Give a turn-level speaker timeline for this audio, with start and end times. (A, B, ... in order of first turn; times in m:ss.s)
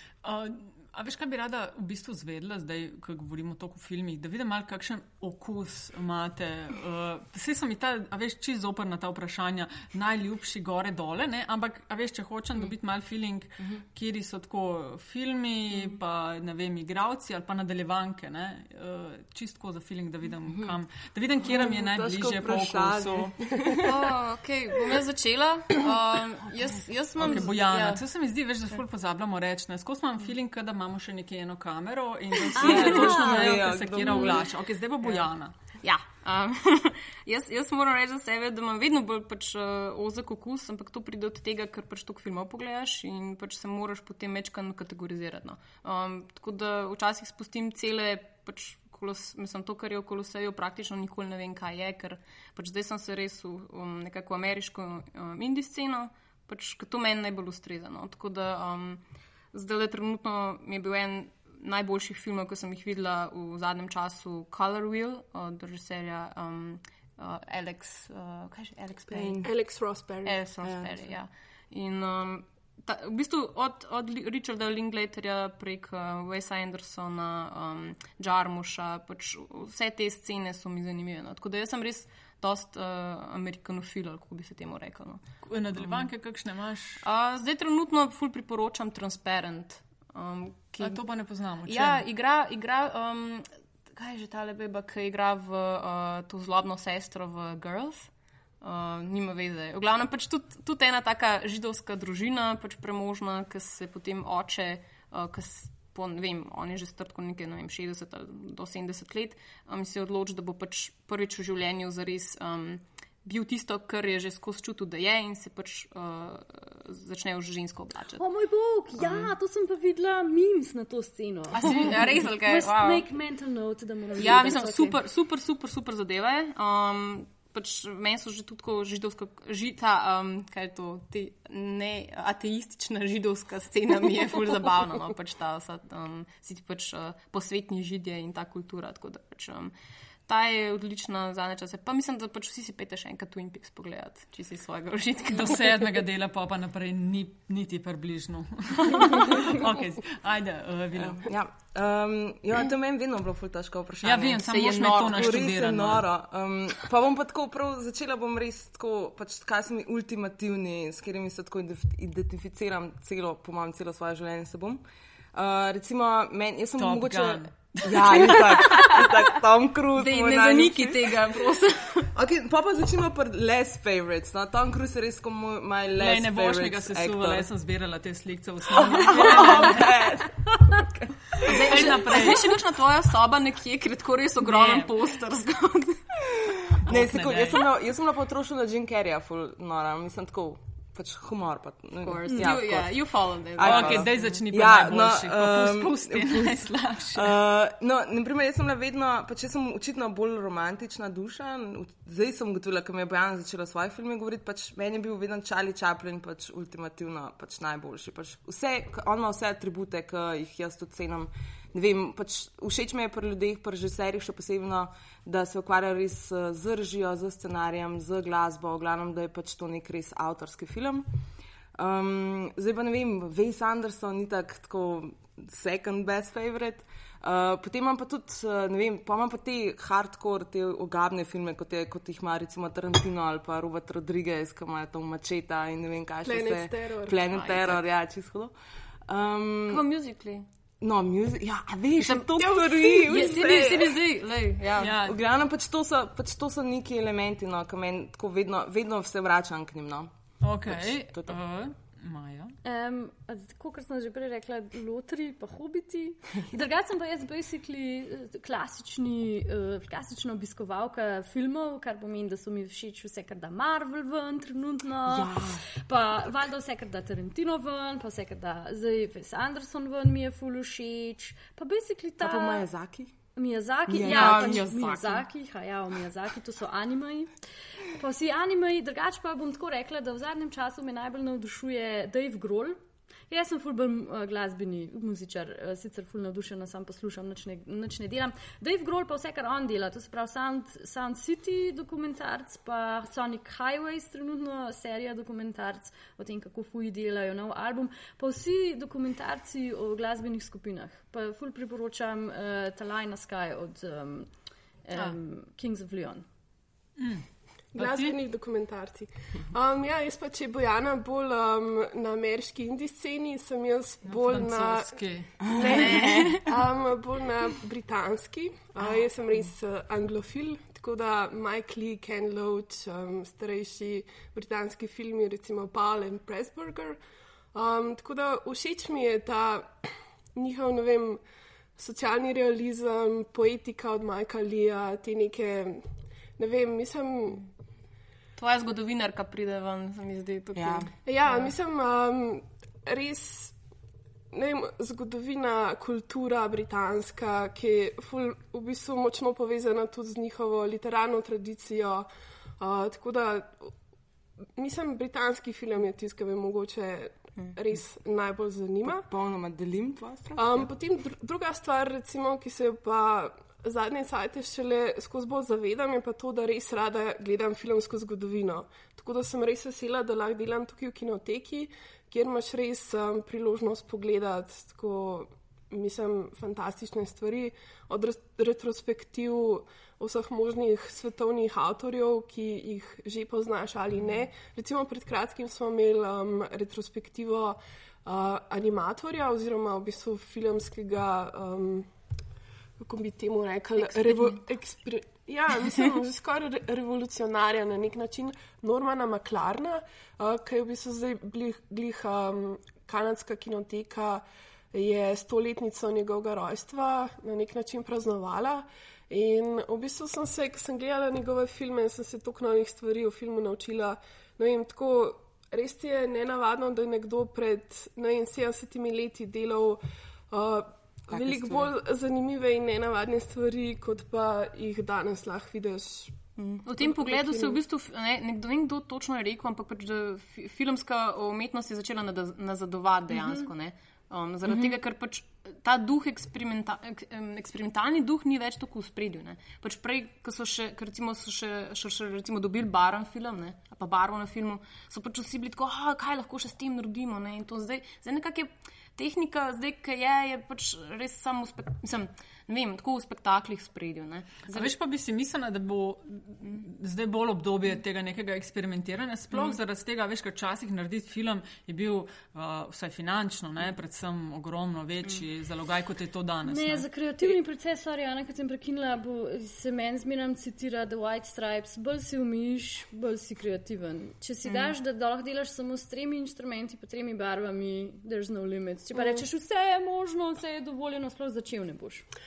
0:00.2-0:23.3 A
0:20.5-0:20.7 B
0:21.4-0:23.9 B
0:23.8-0:28.0 C
0:27.2-0:35.5 A
0:32.6-0:34.4 B
0:32.6-0:33.4 D
0:35.8-1:09.5 C
1:09.1-1:09.5 B
1:09.4-1:10.4 E
1:10.2-1:25.2 C
1:10.6-1:11.0 B
1:25.4-1:27.0 A
1:25.8-1:26.1 C
1:27.0-1:31.0 C
1:30.8-1:32.0 A
1:31.6-1:38.1 C
1:38.6-1:58.2 C
1:58.2-2:05.0 D
2:01.5-2:03.1 C
2:04.2-2:19.7 C
2:20.3-2:25.8 C
2:25.3-2:31.2 A
2:31.0-2:44.8 B
2:34.0-2:36.1 A
2:34.4-2:35.6 C
2:45.3-2:51.4 B
2:46.8-2:49.0 A
2:49.9-2:52.1 C
2:52.1-2:57.5 B
2:56.0-3:00.0 A
2:58.7-3:01.3 B
3:01.4-3:02.5 A
3:01.4-3:06.2 C
3:04.4-3:04.9 A
3:06.5-3:41.1 B
3:06.9-3:07.6 A
3:12.0-3:14.1 C
3:12.3-3:12.5 D
3:13.6-3:17.4 A
3:41.8-3:58.5 B
3:56.2-3:57.2 E
3:57.3-3:57.8 C
3:59.1-3:59.8 B
3:59.7-4:00.5 C
4:00.8-4:04.0 B
4:02.0-4:04.9 C
4:02.4-4:03.2 E
4:04.8-4:10.1 B
4:04.8-4:05.2 A
4:10.4-4:12.6 A
4:10.7-4:11.4 B
4:12.6-4:32.7 D
4:25.1-4:25.6 B
4:32.2-4:33.1 B
4:33.4-4:42.8 D
4:33.9-4:34.7 B
4:34.0-4:35.2 C
4:43.3-5:04.3 D
5:04.8-5:06.2 D
5:07.0-5:08.2 A
5:07.8-5:15.0 E
5:14.1-5:16.3 A
5:15.4-5:16.4 B
5:15.6-5:16.5 C
5:15.6-5:27.0 E
5:27.5-5:31.2 E
5:31.8-5:35.8 E
5:36.4-5:37.5 E
5:38.4-5:41.5 C
5:40.6-5:40.9 B
5:41.1-5:43.5 E
5:44.3-5:52.1 E
5:52.6-5:53.7 E
5:54.6-5:59.0 E
5:58.8-6:00.7 B
6:00.4-6:31.9 E
6:32.8-6:59.8 E
6:33.8-6:34.4 C
7:00.3-7:06.2 E
7:01.1-7:01.7 B
7:06.4-7:34.7 C
7:06.7-7:07.6 E
7:13.1-7:13.5 D
7:34.5-7:46.9 A
7:46.4-8:02.1 D
7:54.4-7:54.7 C